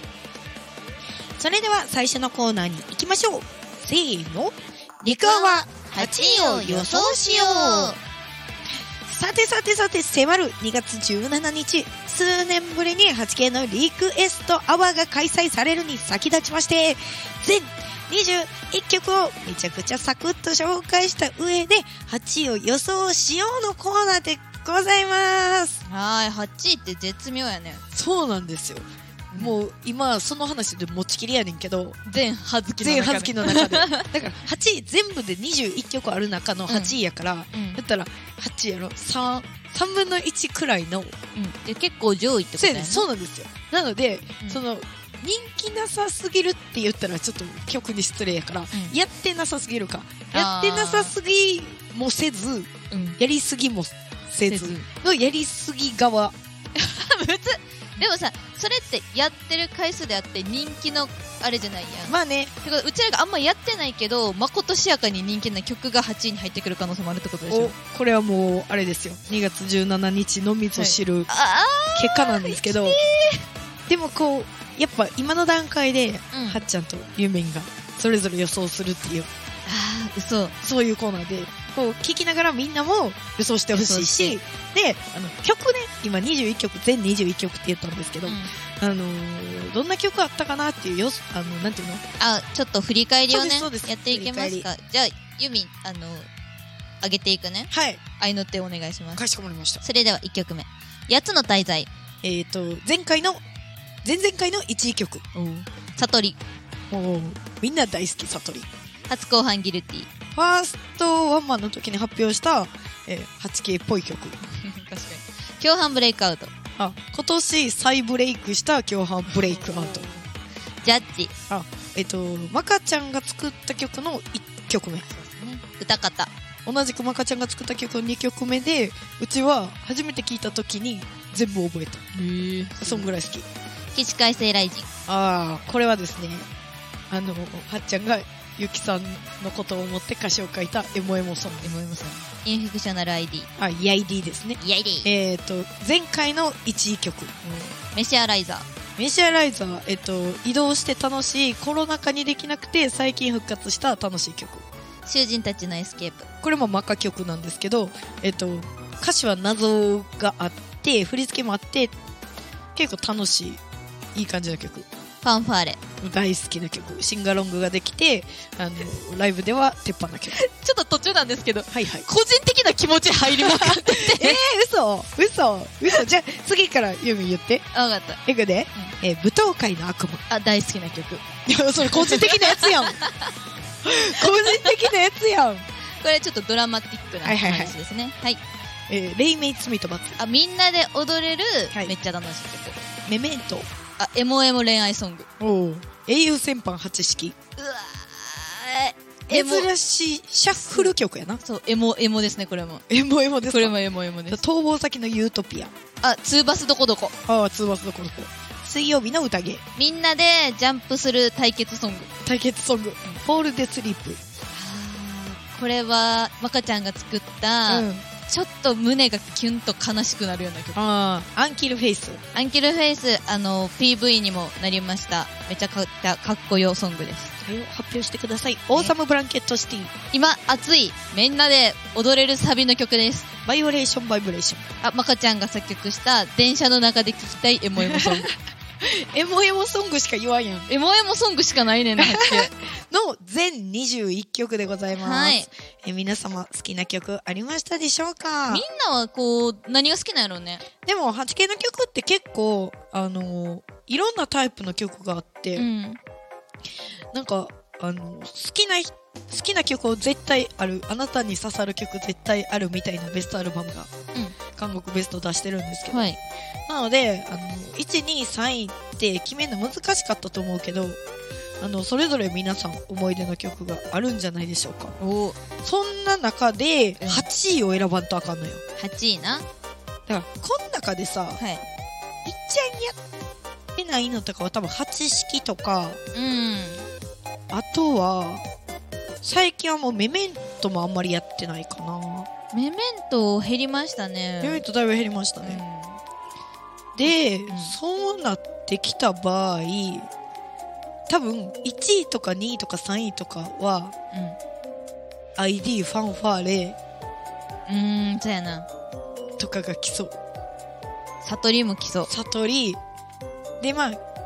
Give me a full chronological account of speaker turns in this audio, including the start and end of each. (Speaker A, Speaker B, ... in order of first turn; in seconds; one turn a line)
Speaker A: 1.4-8.0
Speaker B: 5.0-8.0
Speaker A: 9.1-25.8
Speaker B: 25.9-27.8
Speaker A: 27.9-32.0
Speaker B: 32.0-34.1
Speaker A: 32.8-41.1
Speaker B: 36.7-37.0
Speaker B: 37.5-37.8
Speaker B: 41.3-43.1
Speaker A: 42.6-56.3
Speaker B: 50.3-51.1
Speaker B: 52.9-53.2
Speaker B: 54.5-54.9
Speaker B: 56.8-67.7
Speaker A: 62.1-62.5
Speaker A: 67.5-71.3
Speaker B: 70.7-73.4
Speaker A: 71.9-73.0
Speaker A: 73.9-79.3
Speaker B: 76.3-76.6
Speaker B: 79.7-80.5
Speaker A: 80.6-92.0
Speaker B: 83.7-84.4
Speaker B: 88.2-88.5
Speaker B: 92.2-96.3
Speaker A: 93.3-94.7
Speaker B: 97.0-99.2
Speaker A: 97.7-98.0
Speaker A: 99.2-99.8
Speaker B: 99.8-101.9
Speaker A: 102.2-103.4
Speaker A: 104.0-105.2
Speaker B: 105.3-106.4
Speaker A: 106.9-108.7
Speaker B: 109.1-110.1
Speaker A: 110.3-114.3
Speaker B: 114.5-116.5
Speaker A: 116.8-120.1
Speaker B: 119.3-120.2
Speaker B: 120.8-121.3
Speaker A: 121.5-125.1
Speaker B: 125.1-126.3
Speaker A: 126.7-132.1
Speaker B: 132.1-133.1
Speaker A: 132.8-133.5
Speaker B: 133.9-134.9
Speaker A: 135.1-136.5
Speaker A: 137.1-141.7
Speaker B: 141.6-143.5
Speaker A: 143.6-147.4
Speaker B: 144.6-145.1
Speaker B: 147.4-148.7
Speaker A: 149.0-154.6
Speaker B: 155.1-156.3
Speaker A: 156.4-161.9
Speaker A: 162.7-163.6
Speaker A: 164.1-164.9
Speaker B: 165.2-165.8
Speaker A: 166.0-170.4
Speaker B: 170.3-174.4
Speaker A: 171.7-172.1
Speaker A: 173.2-177.7
Speaker B: 177.7-178.2
Speaker A: 178.2-180.2
Speaker B: 180.3-181.2
Speaker A: 181.4-183.0
Speaker B: 181.8-183.3
Speaker A: 183.8-185.7
Speaker B: 184.2-184.7
Speaker B: 186.0-188.4
Speaker A: 187.2-187.8
Speaker A: 188.9-190.2
Speaker B: 190.2-192.8
Speaker A: 193.1-193.7
Speaker B: 194.0-195.3
Speaker A: 195.4-197.3
Speaker B: 197.6-199.7
Speaker A: 199.3-201.4
Speaker B: 200.6-202.8
Speaker A: 202.9-203.7
Speaker B: 203.4-204.4
Speaker A: 204.3-205.7
Speaker B: 206.0-207.1
Speaker A: 207.3-209.6
Speaker B: 209.8-212.1
Speaker A: 212.2-214.2
Speaker B: 214.5-220.8
Speaker A: 217.7-218.0
Speaker A: 220.7-222.2
Speaker B: 222.3-227.3
Speaker A: 227.4-229.9
Speaker B: 230.1-233.3
Speaker A: 233.4-234.7
Speaker B: 234.8-238.3
Speaker A: 237.8-240.7
Speaker B: 240.7-242.5
Speaker A: 242.0-248.6
Speaker B: 245.0-245.5
Speaker B: 248.5-250.6
Speaker A: 250.8-255.7
Speaker B: 255.5-256.0
Speaker A: 257.1-263.9
Speaker A: 264.5-266.1
Speaker B: 265.9-266.2
Speaker A: 266.7-271.0
Speaker A: 271.6-274.9
Speaker B: 275.0-275.4
Speaker A: 275.6-278.6
Speaker B: 277.0-277.2
Speaker B: 278.8-279.4
Speaker A: 280.1-281.4
Speaker A: 282.2-283.0
Speaker A: 283.7-286.0
Speaker B: 286.1-286.9
Speaker A: 287.5-288.4
Speaker A: 289.2-292.3
Speaker B: 292.5-294.6
Speaker A: 294.4-295.6
Speaker B: 295.4-296.0
Speaker A: 296.9-300.1
Speaker B: 297.5-297.7
Speaker A: 301.1-303.9
Speaker B: 304.1-304.4
Speaker A: 305.4-306.8
Speaker B: 307.7-308.7
Speaker A: 309.4-310.1
Speaker B: 311.2-312.1
Speaker A: 312.1-312.8
Speaker A: 313.6-314.0